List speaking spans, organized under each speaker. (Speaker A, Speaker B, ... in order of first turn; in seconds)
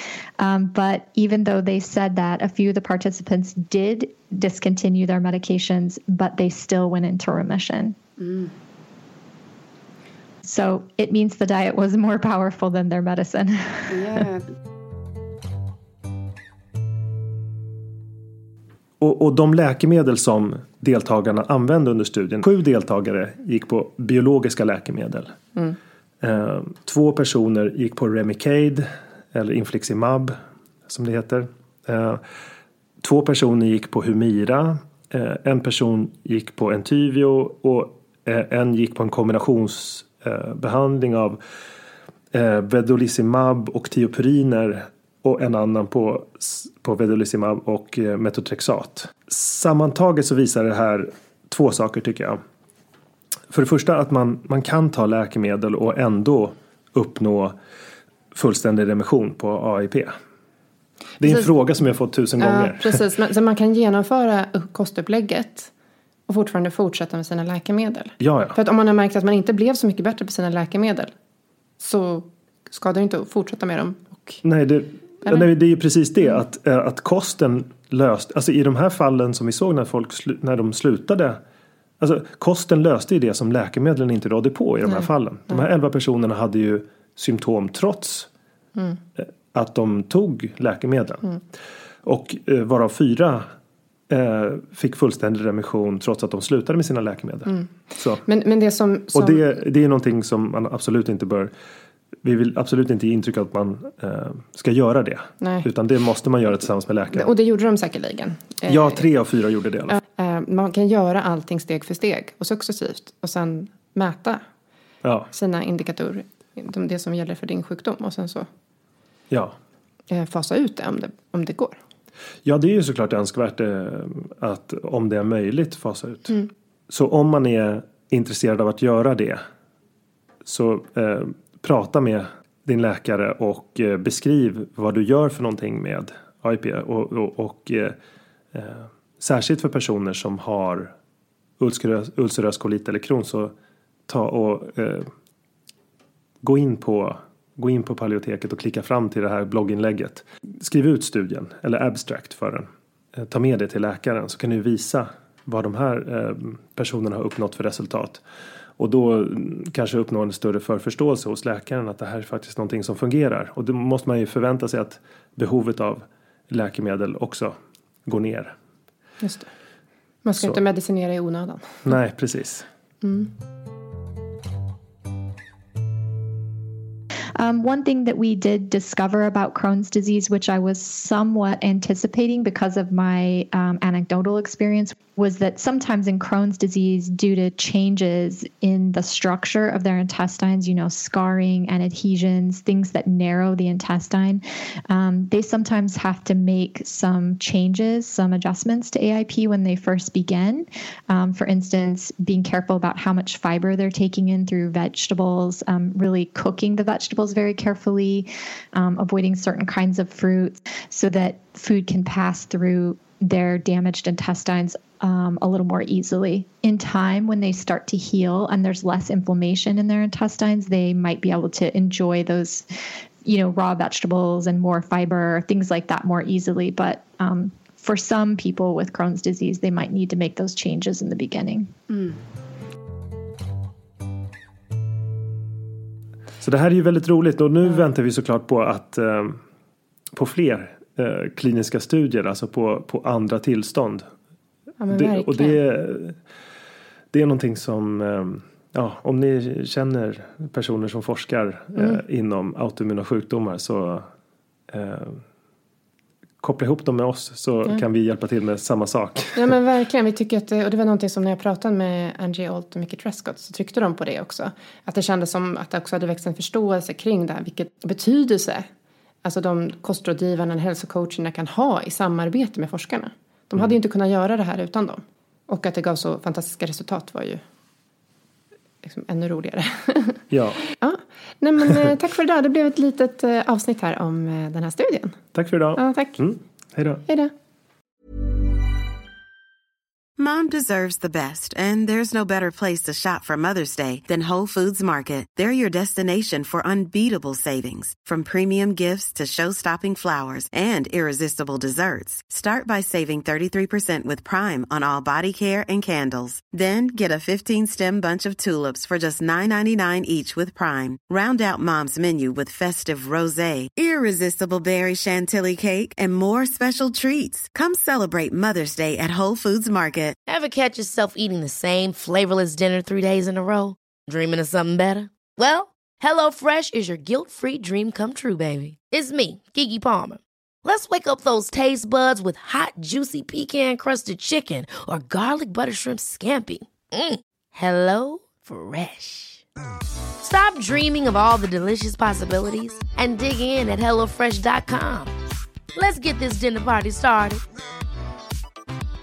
Speaker A: 0.4-8.0, 10.4-14.2, 177.4-222.7, 223.2-231.8
Speaker B: 8.2-8.5, 13.9-14.4, 61.2-61.5, 62.4-65.7, 66.3-71.1, 71.8-74.4, 84.9-85.6, 98.2-99.4, 105.4-105.7, 107.1-109.0, 109.9-114.4, 115.3-118.5, 120.1-121.8, 169.2-169.5, 170.2-171.9, 173.0-173.3, 231.9-232.2, 244.8-245.6, 259.3-268.7, 269.2-277.4, 278.8-280.2, 280.8-285.2, 285.8-286.2, 287.1-287.3
Speaker C: 19.0-25.4, 26.2-30.4, 30.9-32.2, 33.0-41.4, 42.3-52.4, 53.5-57.5, 58.3-60.1, 61.2-63.0, 68.2-68.5, 74.4-81.4, 82.0-88.3, 89.2-91.2, 92.0-93.5, 94.1-98.2, 99.1-101.5, 102.2-107.3, 108.7-110.0, 115.0-115.3, 119.3-119.5, 122.5-126.4, 126.9-129.4, 130.5-138.0, 138.5-140.9, 141.6-143.5, 144.1-145.1, 146.4-158.2, 158.8-168.5, 171.8-172.7, 236.4-239.4, 240.1-244.1, 244.9-246.2, 247.1-254.1, 254.7-255.2, 256.4-259.4, 280.3-280.6, 285.3-287.0
Speaker D: 290.2-320.2
Speaker E: 320.2-339.4, 340.2-345.1, 345.8-347.4